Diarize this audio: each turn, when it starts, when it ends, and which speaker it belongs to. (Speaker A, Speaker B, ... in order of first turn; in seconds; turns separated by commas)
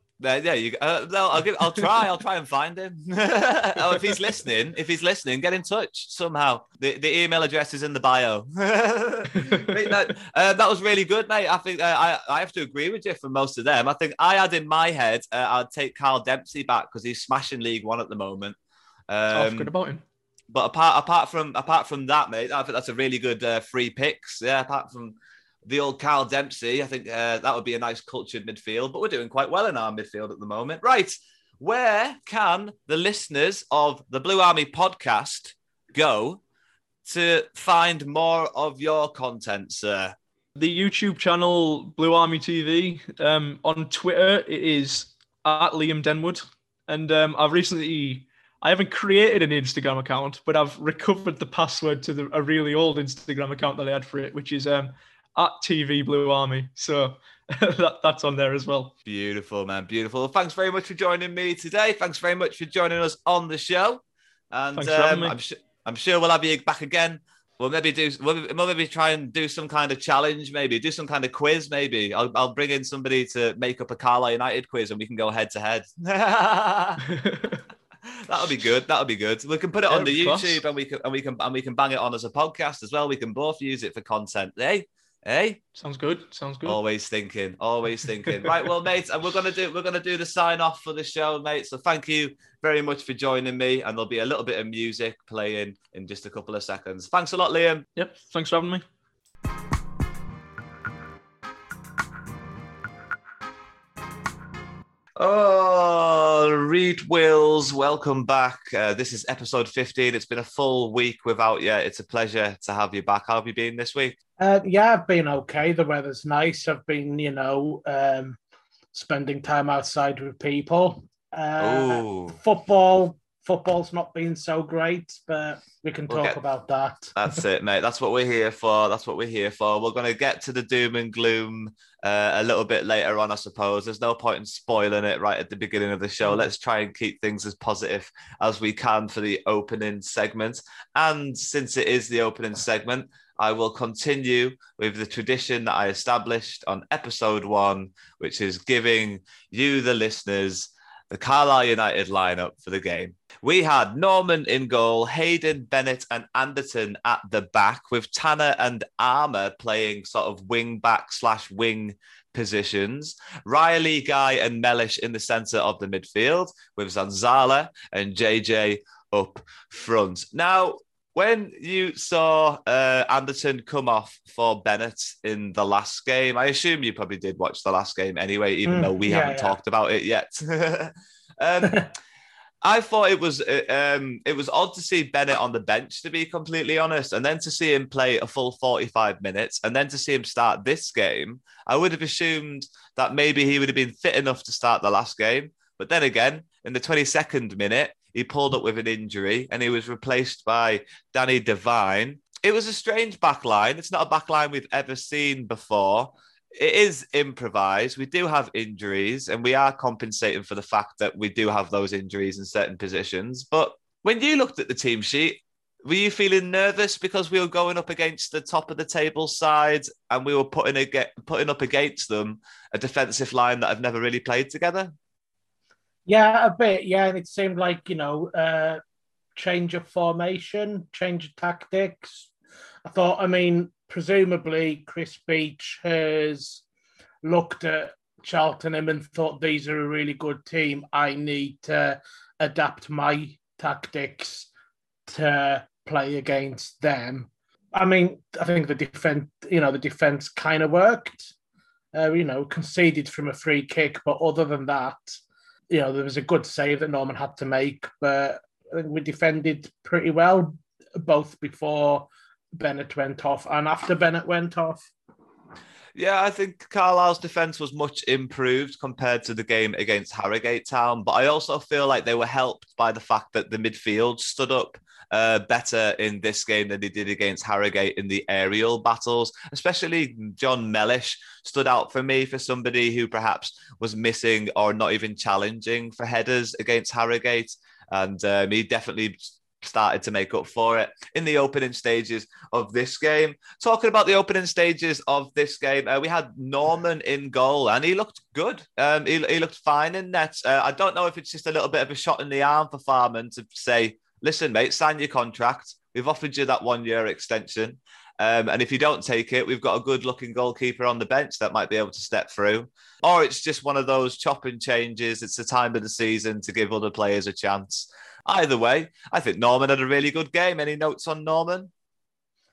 Speaker A: 0.2-18.6, Speaker B: 9.4-9.9, Speaker A: 19.1-19.7, Speaker B: 19.3-20.0, Speaker A: 20.5-36.4, Speaker A: 37.0-40.1, Speaker B: 40.5-58.9, Speaker A: 59.0-77.0, Speaker B: 64.8-65.3, Speaker B: 77.1-77.6, Speaker A: 78.1-85.6, Speaker B: 79.9-80.6, Speaker B: 85.8-86.8, Speaker A: 86.6-97.9, Speaker B: 98.0-98.8, Speaker A: 105.2-114.2, Speaker C: 114.4-118.4, Speaker C: 118.9-127.1, Speaker A: 121.6-122.4, Speaker A: 126.1-126.4, Speaker A: 127.1-181.9, Speaker C: 178.7-179.6, Speaker A: 182.6-224.9, Speaker C: 226.1-228.8, Speaker C: 229.3-232.3, Speaker C: 232.8-236.6, Speaker C: 237.2-244.5, Speaker C: 245.1-251.3, Speaker C: 251.9-255.2, Speaker C: 255.7-264.9, Speaker A: 265.9-321.7